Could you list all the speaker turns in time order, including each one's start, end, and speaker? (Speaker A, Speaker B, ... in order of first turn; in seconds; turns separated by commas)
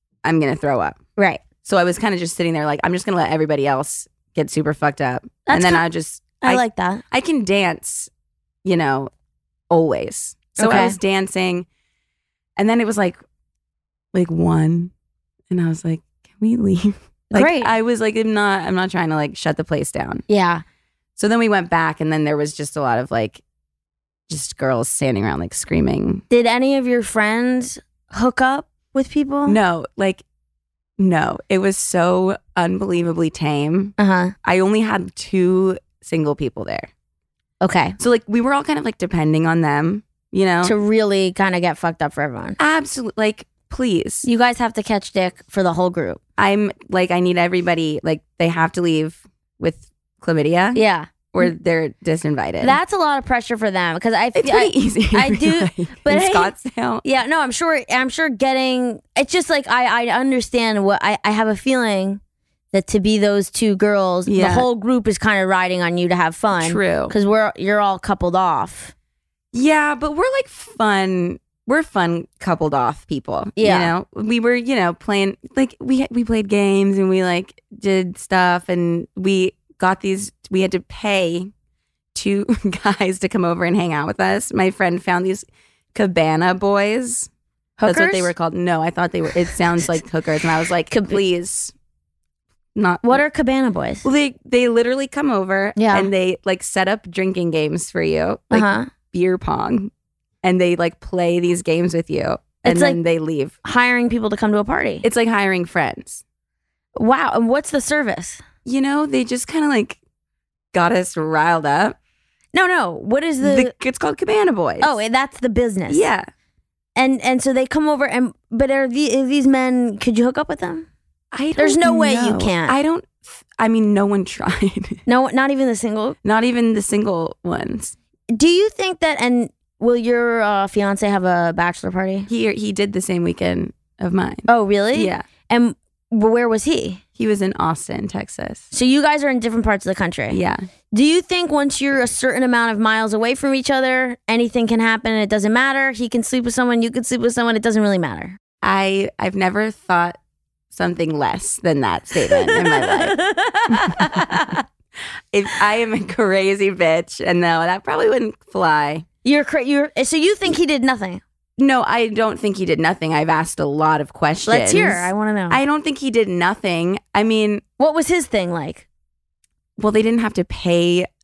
Speaker A: 0.2-1.0, Speaker B: 1.2-1.4, Speaker A: 1.6-8.1, Speaker B: 5.5-5.8, Speaker B: 6.4-7.0, Speaker A: 8.6-9.1, Speaker A: 9.7-11.7, Speaker B: 10.6-11.0, Speaker A: 12.6-13.2, Speaker A: 14.1-14.9, Speaker A: 15.5-20.2, Speaker B: 17.3-17.7, Speaker B: 20.3-20.6, Speaker A: 21.2-23.4, Speaker A: 24.3-26.2, Speaker B: 26.3-29.6, Speaker A: 29.5-30.2, Speaker A: 31.0-36.9, Speaker B: 34.0-34.3, Speaker B: 37.6-38.0, Speaker A: 38.0-40.7, Speaker B: 40.6-42.6, Speaker A: 42.6-44.3, Speaker B: 44.2-46.2, Speaker A: 46.4-50.8, Speaker B: 50.8-51.5, Speaker A: 51.3-52.8, Speaker B: 52.6-62.2, Speaker A: 54.4-57.0, Speaker B: 62.7-68.9, Speaker A: 64.3-64.7, Speaker A: 66.6-67.1, Speaker A: 69.5-81.5, Speaker B: 73.6-73.9, Speaker A: 82.1-87.3, Speaker B: 87.8-88.3, Speaker A: 87.8-91.7, Speaker B: 90.9-91.2, Speaker A: 92.8-93.2, Speaker B: 93.0-94.0, Speaker A: 94.0-99.9, Speaker B: 95.8-96.1, Speaker B: 98.5-98.9, Speaker A: 100.4-103.6, Speaker B: 102.7-103.0, Speaker B: 103.6-105.0, Speaker A: 105.0-106.2, Speaker B: 107.0-108.4, Speaker A: 108.7-110.0, Speaker A: 110.7-112.0, Speaker B: 112.5-113.7, Speaker A: 113.4-115.0, Speaker B: 114.8-116.1, Speaker A: 115.9-116.3, Speaker B: 117.0-120.9, Speaker A: 121.3-125.0, Speaker B: 121.6-122.8, Speaker B: 125.1-126.2, Speaker A: 126.2-128.0, Speaker B: 128.3-132.3, Speaker A: 132.3-135.3, Speaker B: 134.5-137.0, Speaker A: 137.2-138.7, Speaker B: 138.7-140.4, Speaker A: 140.3-140.6, Speaker B: 140.9-148.4, Speaker A: 148.6-150.2, Speaker A: 150.7-153.2, Speaker B: 152.3-154.6, Speaker A: 153.7-154.4, Speaker A: 155.3-159.1, Speaker B: 159.2-161.2, Speaker A: 161.6-167.6, Speaker B: 164.5-165.6, Speaker B: 167.8-168.8, Speaker A: 169.8-171.1